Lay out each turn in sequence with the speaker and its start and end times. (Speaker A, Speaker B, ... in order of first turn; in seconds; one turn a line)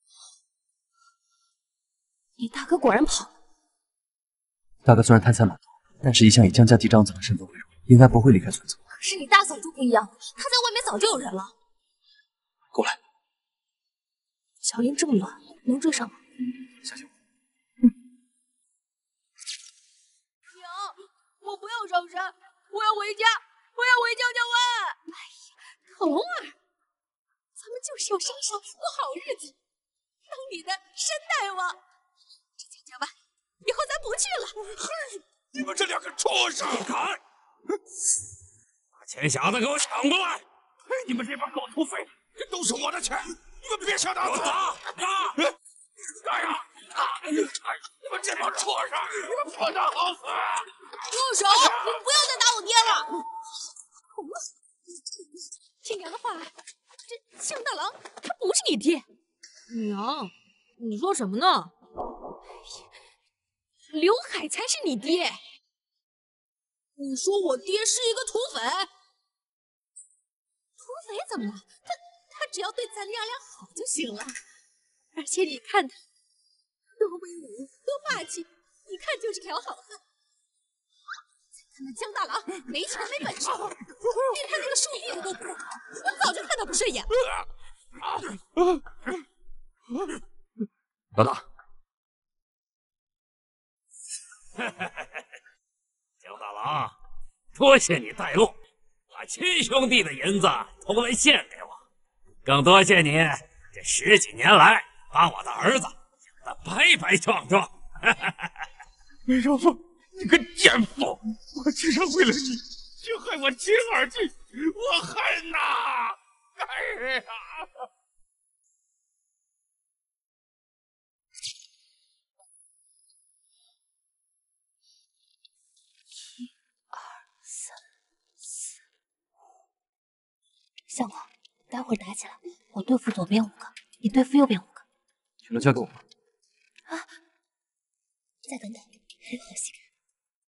Speaker A: 2.4-3.3
Speaker B: 4.8-8.8
Speaker A: 8.9-11.5
Speaker B: 12.7-13.0
Speaker A: 14.6-16.2
Speaker C: 20.5-24.7
Speaker D: 25.9-26.5
Speaker D: 27.6-29.5
Speaker D: 30.3-31.8
Speaker D: 32.6-33.1
Speaker D: 33.6-34.6
Speaker E: 35.5-36.9
Speaker F: 39.0-40.4
Speaker E: 40.9-44.9
Speaker E: 46.2-46.6
Speaker E: 48.0-50.5
Speaker D: 51.1-53.1
Speaker C: 51.1-51.6
Speaker D: 55.8-56.5
Speaker D: 57.1-59.0
Speaker C: 59.7-61.7
Speaker D: 63.9-65.4
Speaker C: 67.0-68.9
Speaker D: 70.8-71.7
Speaker D: 72.3-74.4
Speaker D: 75.2-75.9
Speaker D: 77.0-80.0
Speaker D: 81.8-87.1
Speaker F: 91.2-91.4
Speaker F: 96.2-96.9
Speaker F: 97.5-98.5
Speaker F: 99.1-101.8
Speaker F: 102.4-105.9
Speaker F: 106.5-108.3
Speaker E: 109.3-117.5
Speaker A: 126.9-127.8
Speaker A: 130.9-134.8
Speaker B: 135.4-136.0
Speaker A: 138.4-139.8